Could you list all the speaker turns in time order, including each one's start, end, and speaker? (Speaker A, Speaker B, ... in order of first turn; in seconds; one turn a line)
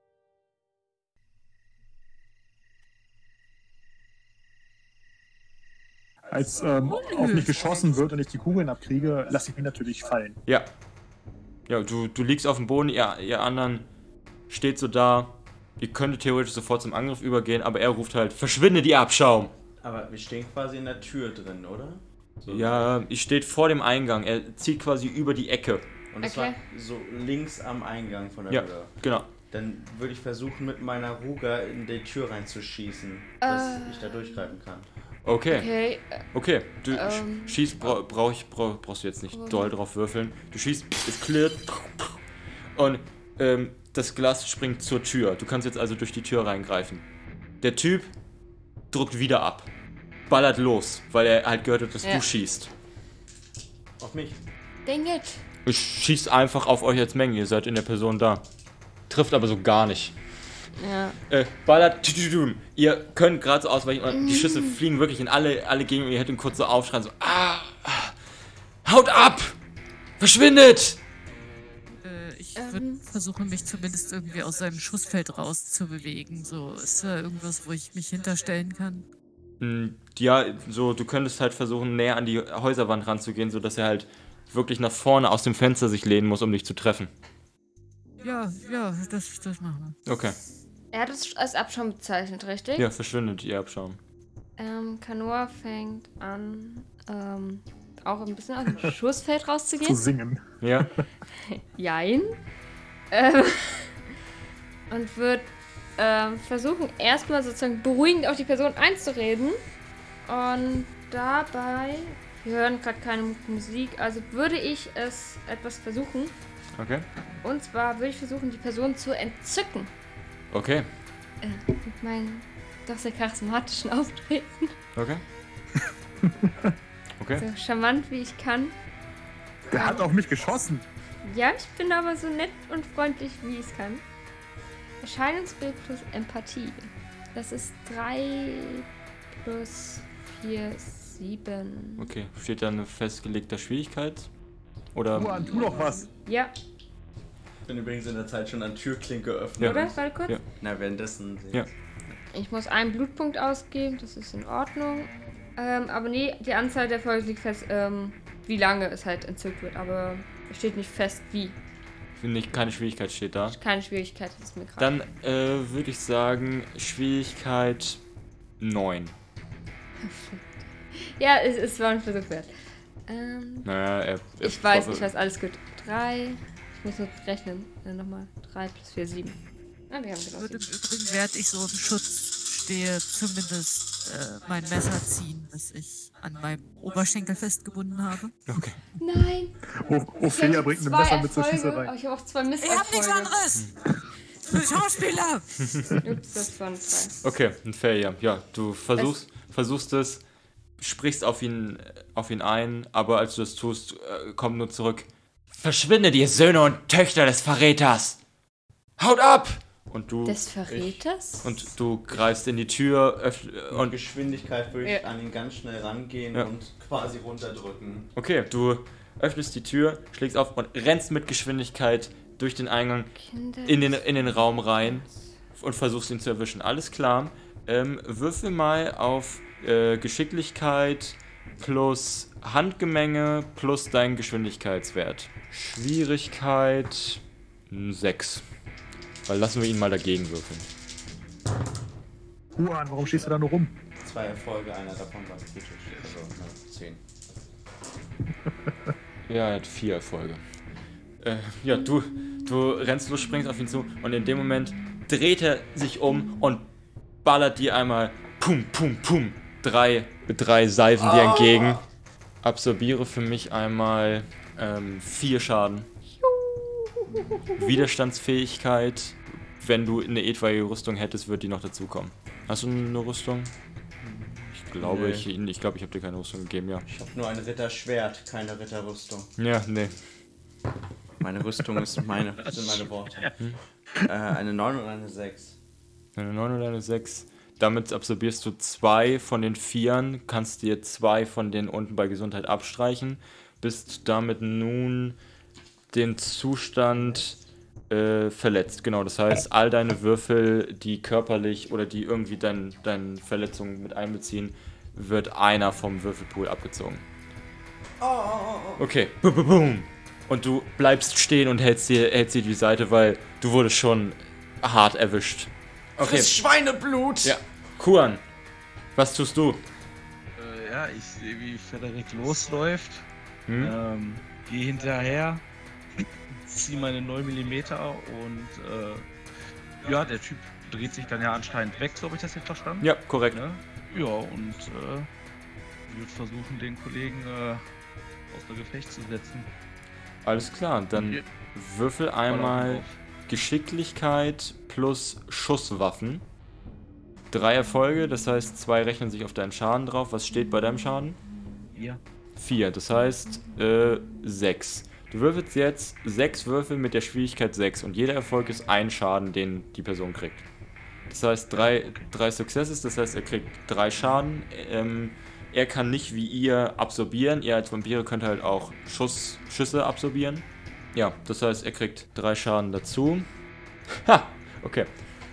Speaker A: 6.3-10.4
Speaker B: 6.9-7.9
Speaker C: 11.7-13.9
Speaker C: 14.5-19.5
Speaker D: 19.8-22.9
Speaker C: 22.5-25.9
Speaker D: 26.1-34.9
Speaker E: 26.2-26.6
Speaker C: 28.5-29.3
Speaker E: 33.4-34.5
Speaker C: 35.2-35.7
Speaker E: 35.5-36.2
Speaker C: 36.2-42.2
Speaker E: 36.9-37.6
Speaker E: 39.3-39.7
Speaker C: 42.8-47.0
Speaker C: 47.6-48.1
Speaker C: 48.9-49.7
Speaker C: 50.3-52.7
Speaker D: 54.0-54.4
Speaker E: 54.8-55.4
Speaker C: 55.6-58.4
Speaker C: 59.1-60.2
Speaker E: 60.8-61.2
Speaker C: 61.3-68.2
Speaker E: 64.1-64.8
Speaker C: 68.8-69.6
Speaker C: 70.2-71.0
Speaker B: 72.0-79.0
Speaker E: 72.5-73.0
Speaker C: 79.6-87.1
Speaker B: 88.2-90.0
Speaker C: 90.0-90.4
Speaker E: 90.9-92.9
Speaker C: 92.8-94.0
Speaker E: 94.6-100.0
Speaker A: 99.8-100.4
Speaker C: 100.6-100.9
Speaker E: 101.4-102.4
Speaker E: 103.1-104.0
Speaker E: 104.9-109.6
Speaker E: 110.2-116.3
Speaker C: 116.8-117.1
Speaker E: 117.4-119.9
Speaker C: 120.5-120.9
Speaker E: 121.4-124.7
Speaker C: 125.0-125.2
Speaker A: 126.2-126.7
Speaker C: 127.2-127.5
Speaker E: 127.3-128.8
Speaker A: 129.7-130.8
Speaker E: 129.7-130.0
Speaker E: 131.2-134.0
Speaker E: 135.0-142.1
Speaker C: 142.0-144.3
Speaker C: 144.9-145.5
Speaker A: 145.1-146.1
Speaker E: 145.4-146.5
Speaker D: 147.6-149.9
Speaker E: 149.6-150.4
Speaker C: 149.6-150.4
Speaker D: 150.6-151.7
Speaker E: 152.3-161.6
Speaker C: 162.2-163.6
Speaker E: 163.5-164.9
Speaker C: 164.8-168.0
Speaker C: 168.6-169.1
Speaker E: 170.0-172.5
Speaker E: 173.1-173.7
Speaker C: 173.6-175.1
Speaker E: 174.4-179.4
Speaker E: 179.9-180.7
Speaker B: 180.4-188.3
Speaker C: 188.5-188.8
Speaker E: 189.0-189.5
Speaker A: 189.8-191.9
Speaker E: 190.2-193.3
Speaker B: 192.6-193.7
Speaker B: 194.4-195.9
Speaker E: 196.0-197.2
Speaker C: 197.2-200.2
Speaker C: 200.8-208.2
Speaker C: 209.0-210.4
Speaker E: 210.2-211.7
Speaker D: 210.7-211.0
Speaker C: 211.4-213.9
Speaker D: 213.7-218.1
Speaker C: 218.2-223.1
Speaker E: 223.2-225.2
Speaker C: 223.6-238.4
Speaker C: 239.2-240.7
Speaker A: 242.6-243.7
Speaker D: 244.0-247.0
Speaker C: 249.3-250.4
Speaker C: 251.2-256.7
Speaker C: 257.2-261.8
Speaker D: 261.0-261.8
Speaker C: 262.4-265.9
Speaker E: 266.2-267.8
Speaker D: 267.1-267.4
Speaker C: 267.6-273.5
Speaker D: 274.0-275.3
Speaker C: 274.5-276.9
Speaker D: 276.9-279.3
Speaker C: 279.4-280.0
Speaker D: 281.2-283.3
Speaker D: 283.9-285.6
Speaker C: 286.1-295.2
Speaker C: 295.9-297.4
Speaker C: 297.9-307.0
Speaker D: 308.0-308.8
Speaker C: 308.8-316.4
Speaker D: 316.0-317.4
Speaker C: 317.2-318.2
Speaker C: 318.9-319.6
Speaker F: 320.3-323.1
Speaker C: 323.5-323.7
Speaker F: 323.6-325.4
Speaker F: 326.4-329.1
Speaker F: 329.8-335.1
Speaker C: 332.8-333.4
Speaker F: 335.9-337.6
Speaker F: 338.3-339.5
Speaker C: 340.2-346.2
Speaker F: 340.9-341.2
Speaker F: 342.3-343.0
Speaker C: 347.3-351.2
Speaker F: 351.7-352.0
Speaker C: 352.4-360.4
Speaker C: 361.1-373.3
Speaker F: 361.5-362.0
Speaker C: 373.9-374.9